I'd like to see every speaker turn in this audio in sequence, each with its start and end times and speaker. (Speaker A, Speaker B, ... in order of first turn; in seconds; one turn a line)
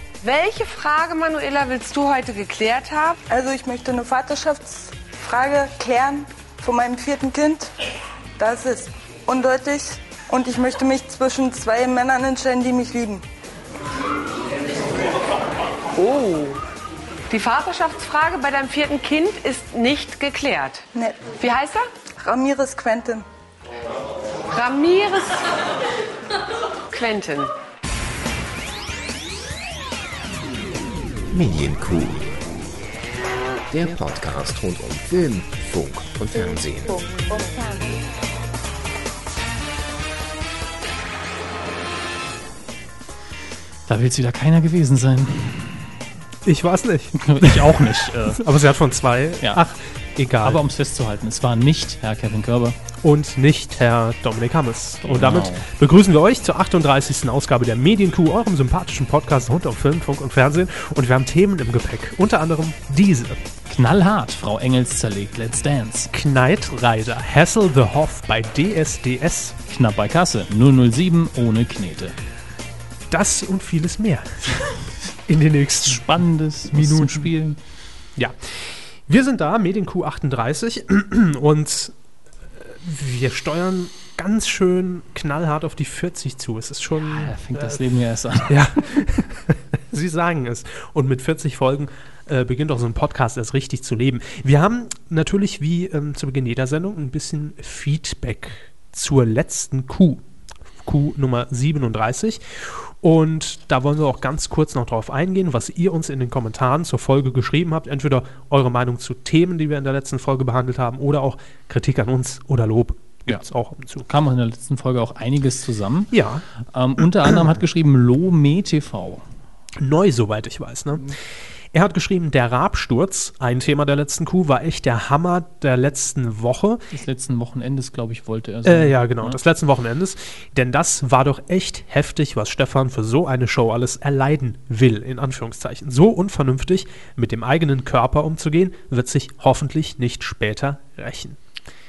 Speaker A: 0.2-3.2
Speaker B: 3.3-7.7
Speaker B: 8.4-13.2
Speaker A: 15.9-16.6
Speaker A: 17.3-21.9
Speaker B: 20.9-21.3
Speaker B: 22.2-23.2
Speaker A: 24.5-25.5
Speaker A: 26.9-27.5
Speaker C: 31.3-32.5
Speaker C: 33.7-37.1
Speaker D: 43.9-45.9
Speaker E: 46.4-50.6
Speaker D: 47.1-48.5
Speaker D: 50.4-52.8
Speaker E: 53.0-63.4
Speaker D: 55.0-55.7
Speaker D: 63.7-66.1
Speaker E: 66.1-69.5
Speaker D: 69.7-72.2
Speaker E: 73.1-76.1
Speaker D: 75.8-77.6
Speaker E: 76.7-77.3
Speaker E: 78.2-81.9
Speaker E: 82.6-87.8
Speaker D: 86.9-88.7
Speaker E: 88.5-100.2
Speaker E: 100.8-114.1
Speaker D: 114.1-119.2
Speaker E: 116.1-116.4
Speaker E: 119.8-121.1
Speaker E: 121.7-126.8
Speaker D: 126.9-129.4
Speaker E: 128.6-141.4